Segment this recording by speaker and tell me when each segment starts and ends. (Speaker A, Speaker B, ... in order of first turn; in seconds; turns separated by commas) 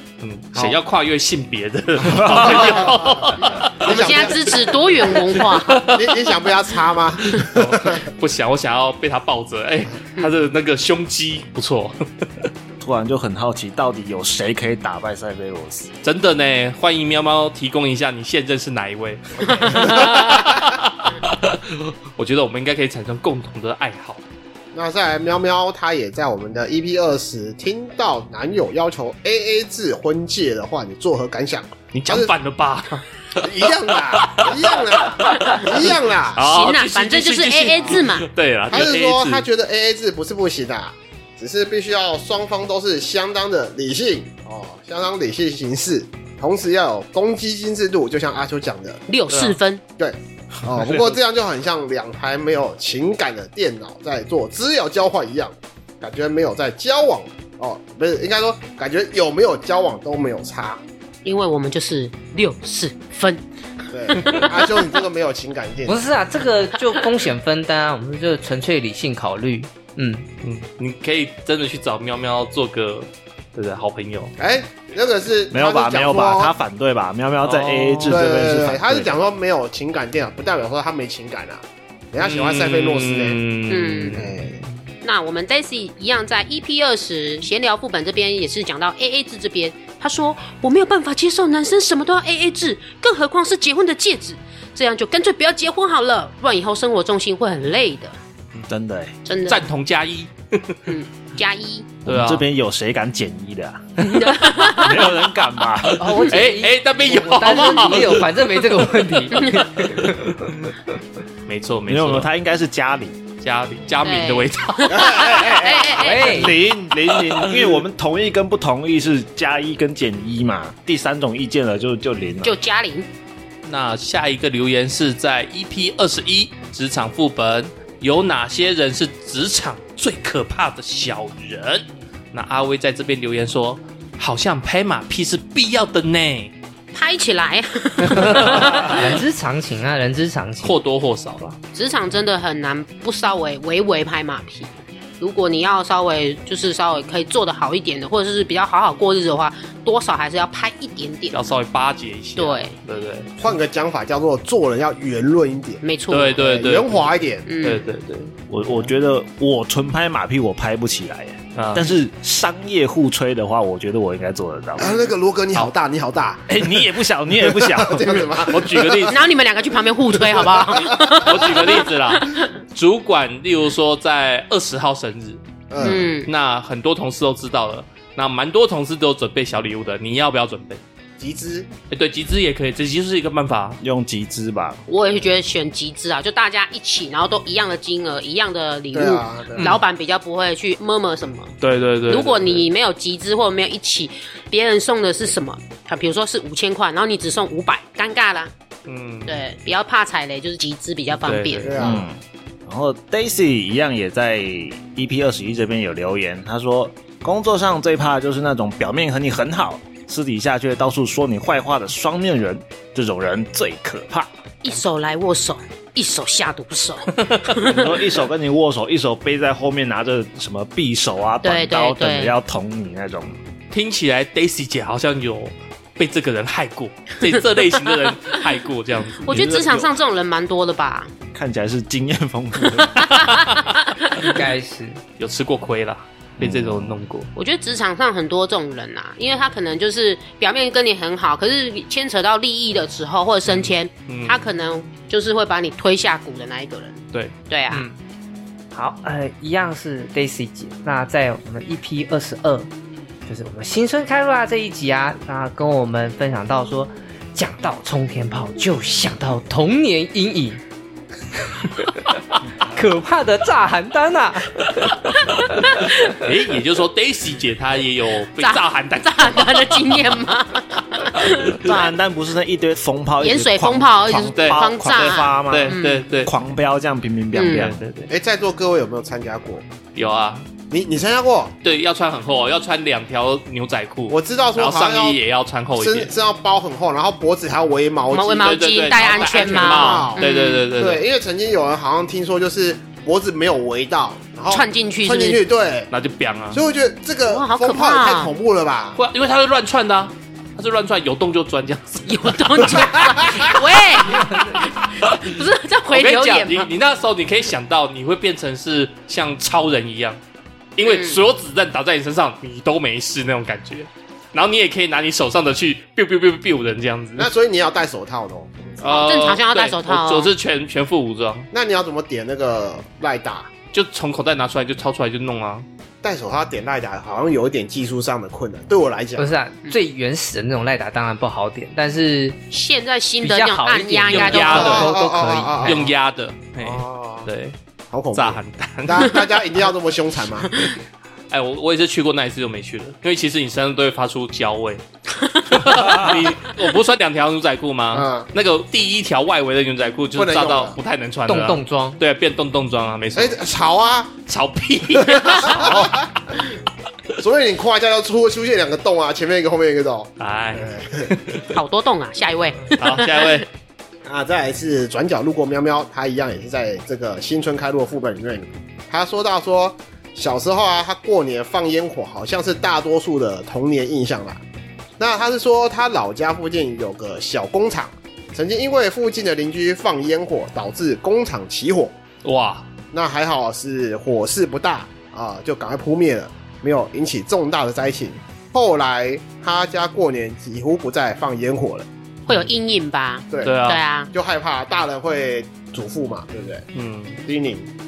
Speaker A: 0.2-6.2, Speaker B: 2.4-3.0, Speaker B: 3.8-4.6, Speaker C: 3.9-5.9, Speaker B: 5.8-8.0, Speaker A: 7.3-12.5, Speaker D: 12.8-15.9, Speaker A: 16.0-24.2, Speaker B: 19.4-20.7, Speaker B: 24.7-32.3, Speaker A: 31.9-33.5, Speaker B: 33.4-36.5, Speaker A: 34.0-39.5, Speaker C: 36.4-38.3, Speaker B: 38.7-49.0, Speaker C: 49.1-49.8, Speaker A: 49.3-49.6, Speaker B: 50.0-60.8, Speaker A: 50.7-51.1, Speaker C: 61.2-63.4, Speaker B: 63.9-66.0, Speaker C: 64.2-64.5, Speaker E: 65.9-70.3, Speaker A: 70.4-74.3, Speaker B: 74.4-76.5, Speaker D: 75.5-79.2, Speaker A: 77.4-78.2, Speaker B: 78.1-83.4, Speaker A: 82.2-84.7, Speaker C: 83.7-84.2, Speaker B: 84.1-84.6, Speaker C: 85.0-98.2, Speaker D: 98.7-99.1, Speaker C: 99.3-99.6, Speaker A: 99.4-100.9, Speaker C: 100.9-102.0, Speaker D: 102.0-103.8, Speaker A: 102.1-102.5, Speaker C: 104.0-105.3, Speaker D: 104.6-106.1, Speaker A: 105.9-108.3, Speaker E: 106.0-110.3, Speaker C: 107.4-108.1, Speaker C: 109.4-109.6, Speaker A: 110.0-110.3, Speaker A: 111.5-112.3, Speaker D: 111.9-113.2, Speaker A: 113.4-115.3, Speaker C: 114.0-116.7, Speaker B: 115.0-115.7, Speaker D: 115.1-122.6, Speaker E: 115.9-116.6, Speaker A: 117.0-117.8, Speaker C: 122.4-123.1, Speaker A: 123.7-136.5, Speaker C: 136.9-139.1, Speaker E: 138.2-140.8, Speaker A: 138.3-138.9, Speaker A: 140.6-141.6, Speaker C: 141.8-151.5, Speaker A: 151.3-153.3, Speaker C: 152.4-152.7, Speaker B: 153.4-155.8, Speaker C: 155.8-156.4, Speaker A: 156.1-157.1, Speaker B: 156.4-157.5, Speaker C: 157.5-157.8, Speaker A: 157.6-158.3, Speaker D: 158.5-165.0, Speaker A: 161.6-161.9, Speaker B: 164.8-166.5, Speaker D: 166.5-168.3, Speaker B: 167.5-169.2, Speaker A: 168.5-169.2, Speaker C: 169.1-172.5, Speaker B: 170.2-171.6, Speaker A: 171.1-180.8, Speaker B: 175.7-176.1, Speaker C: 175.8-176.3, Speaker B: 181.2-181.7, Speaker A: 181.9-183.8, Speaker D: 183.8-184.8, Speaker C: 184.9-191.5, Speaker B: 188.9-189.8, Speaker A: 191.6-192.7, Speaker C: 192.1-198.5, Speaker A: 198.9-199.4, Speaker C: 199.3-201.8, Speaker A: 201.1-201.8, Speaker B: 201.6-202.1, Speaker D: 201.8-214.3, Speaker C: 214.6-218.2, Speaker D: 217.6-223.4, Speaker C: 221.4-222.4, Speaker A: 223.7-229.3, Speaker C: 229.2-231.1, Speaker D: 229.3-230.0, Speaker D: 231.3-233.3, Speaker A: 233.0-233.5, Speaker C: 233.3-234.3, Speaker E: 234.2-235.0, Speaker A: 235.2-237.3, Speaker D: 236.4-237.0, Speaker C: 237.3-247.8, Speaker A: 243.5-244.5, Speaker E: 247.7-247.9, Speaker E: 248.7-252.7, Speaker E: 253.3-260.6, Speaker E: 261.6-261.9, Speaker E: 262.6-265.0, Speaker A: 266.1-270.0, Speaker C: 268.4-271.9, Speaker D: 271.6-277.8, Speaker C: 273.2-276.1, Speaker A: 274.4-276.3, Speaker C: 277.3-277.7, Speaker A: 277.5-278.1, Speaker B: 278.1-279.6, Speaker A: 279.9-280.5, Speaker B: 280.7-281.5, Speaker A: 281.6-286.1, Speaker B: 284.1-285.2, Speaker B: 285.8-295.9, Speaker C: 288.1-290.7, Speaker A: 288.4-291.0, Speaker C: 294.5-295.4, Speaker A: 295.9-296.6, Speaker B: 296.5-299.0, Speaker C: 297.3-298.3, Speaker A: 299.0-302.4, Speaker C: 302.1-306.7, Speaker B: 302.8-303.5, Speaker A: 305.9-310.2, Speaker A: 310.8-317.3, Speaker C: 310.8-311.2, Speaker B: 317.2-319.0, Speaker A: 318.8-321.5, Speaker C: 318.8-320.3, Speaker B: 321.5-323.5, Speaker A: 323.7-325.7, Speaker B: 326.0-329.3, Speaker E: 329.2-332.4, Speaker C: 332.5-334.9, Speaker E: 333.2-335.8, Speaker A: 334.1-334.9, Speaker B: 334.5-335.9, Speaker A: 335.6-337.6, Speaker B: 336.6-337.3, Speaker B: 337.9-340.5, Speaker A: 338.1-339.3, Speaker A: 341.3-344.8, Speaker A: 345.5-353.4, Speaker B: 347.9-348.3, Speaker B: 350.2-350.8, Speaker E: 351.3-352.0, Speaker B: 353.1-354.1, Speaker A: 354.3-356.1, Speaker B: 355.0-356.5, Speaker B: 357.2-361.1, Speaker A: 360.2-361.5, Speaker C: 361.5-363.4, Speaker A: 362.7-363.5, Speaker B: 364.1-374.4, Speaker B: 375.0-381.9, Speaker A: 382.2-382.7, Speaker B: 382.9-391.9, Speaker C: 392.3-394.1, Speaker B: 393.3-393.6, Speaker A: 393.4-393.8, Speaker B: 394.1-396.6, Speaker A: 396.7-397.2, Speaker B: 397.2-397.7